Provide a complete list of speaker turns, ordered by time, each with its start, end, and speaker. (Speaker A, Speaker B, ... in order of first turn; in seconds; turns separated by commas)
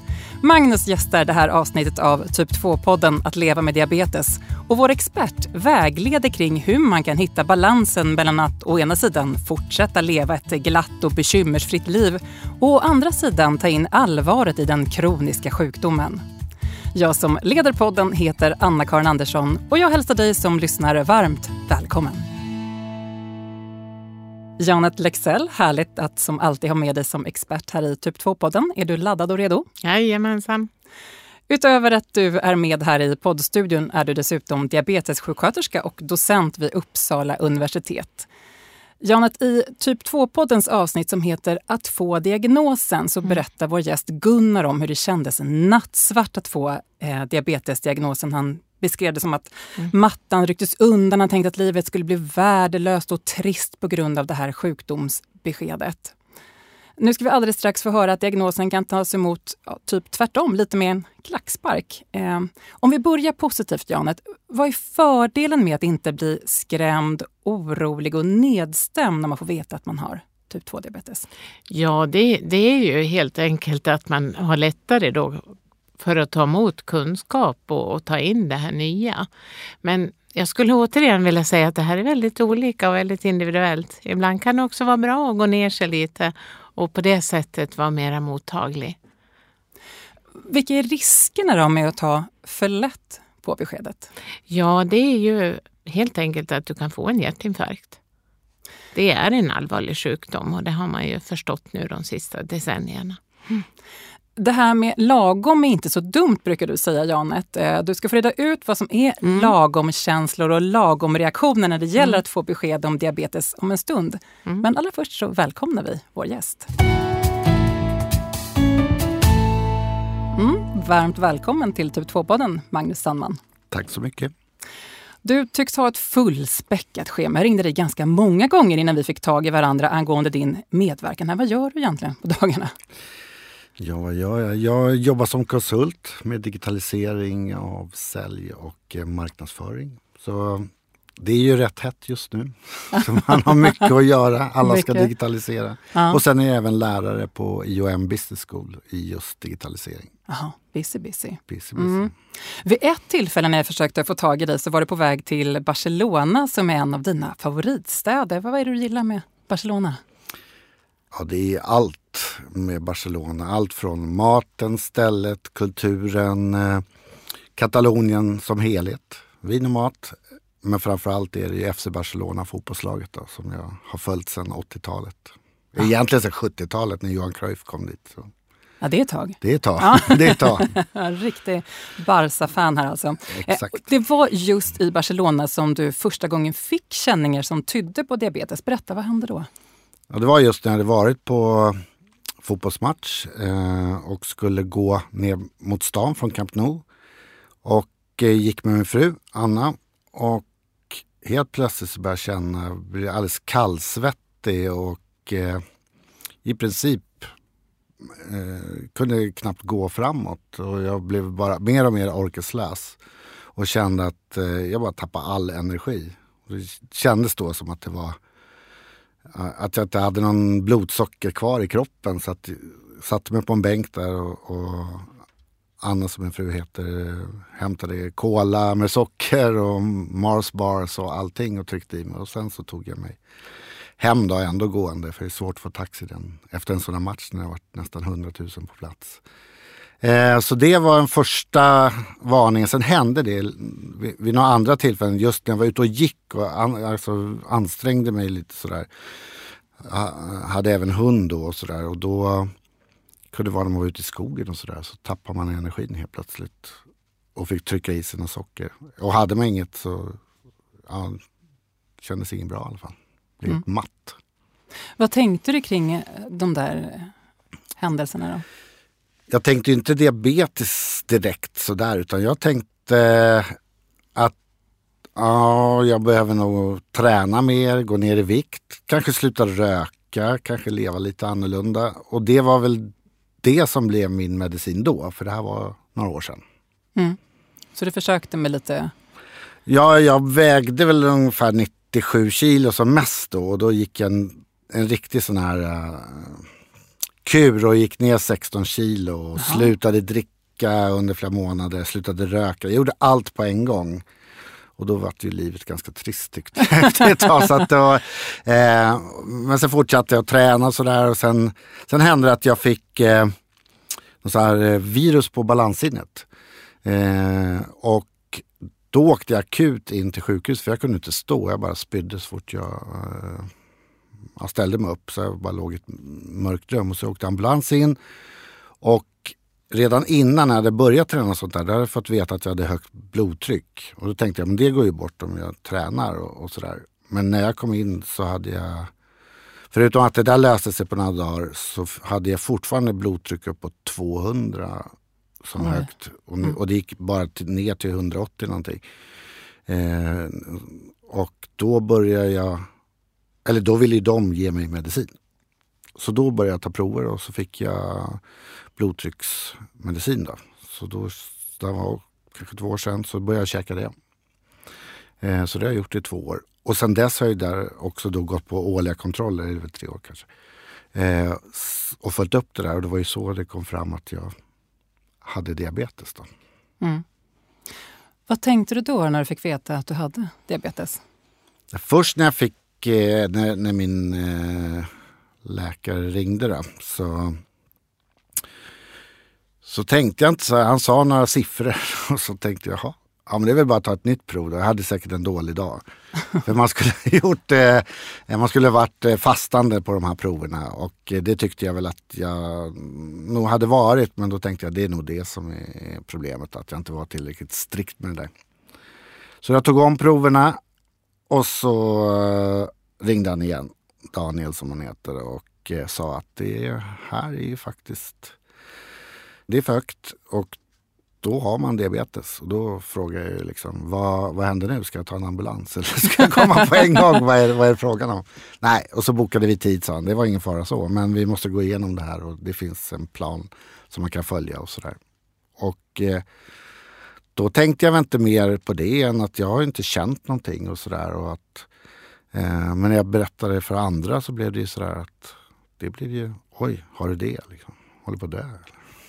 Speaker A: 0.4-16.2, Speaker A: 16.9-22.2, Speaker A: 24.6-29.7, Speaker B: 29.8-30.7, Speaker A: 31.5-38.3, Speaker A: 39.0-56.1, Speaker A: 57.0-71.3, Speaker B: 71.7-79.3, Speaker B: 79.8-89.0, Speaker A: 90.4-94.1, Speaker B: 94.5-98.0, Speaker B: 98.9-103.6, Speaker A: 104.4-116.7, Speaker B: 109.2-109.5, Speaker A: 120.3-123.4, Speaker C: 123.7-124.3, Speaker A: 125.2-132.7, Speaker C: 133.8-150.1, Speaker A: 144.6-145.1, Speaker A: 145.9-146.2, Speaker A: 150.3-160.0, Speaker C: 151.5-152.1, Speaker C: 161.1-166.8, Speaker C: 167.5-178.3, Speaker A: 178.8-189.5, Speaker C: 179.4-180.7, Speaker C: 183.3-183.8, Speaker C: 190.1-191.8, Speaker C: 192.4-196.8, Speaker C: 197.6-205.6, Speaker C: 206.4-207.3, Speaker C: 208.0-213.0, Speaker C: 213.5-218.2, Speaker C: 219.3-225.1, Speaker C: 225.8-233.2, Speaker C: 234.0-239.2, Speaker C: 240.0-248.9, Speaker C: 249.8-252.5, Speaker C: 253.3-256.8, Speaker C: 257.3-260.2, Speaker C: 260.9-261.2, Speaker C: 262.0-264.2, Speaker A: 265.0-267.1, Speaker A: 267.8-268.4, Speaker C: 269.3-273.5, Speaker C: 275.1-286.4, Speaker A: 287.7-288.9, Speaker C: 289.6-296.4, Speaker C: 297.2-304.0, Speaker A: 299.4-299.7, Speaker C: 304.8-313.3, Speaker C: 314.2-316.3, Speaker C: 316.8-323.5, Speaker C: 324.4-327.9, Speaker C: 328.8-338.9, Speaker C: 339.7-344.9, Speaker C: 345.4-348.8, Speaker A: 345.6-345.9, Speaker C: 349.7-352.6, Speaker C: 353.4-355.1, Speaker C: 356.0-358.2, Speaker C: 358.8-363.9, Speaker C: 365.2-370.3, Speaker C: 370.9-374.3, Speaker C: 375.2-376.3, Speaker A: 378.3-381.0, Speaker C: 381.7-384.9, Speaker C: 385.4-387.4, Speaker C: 389.6-395.8, Speaker C: 396.4-408.3, Speaker C: 409.4-410.6, Speaker C: 411.3-418.4, Speaker C: 419.5-420.6, Speaker C: 421.2-435.0, Speaker C: 435.6-436.2, Speaker C: 437.3-441.7, Speaker C: 442.3-448.7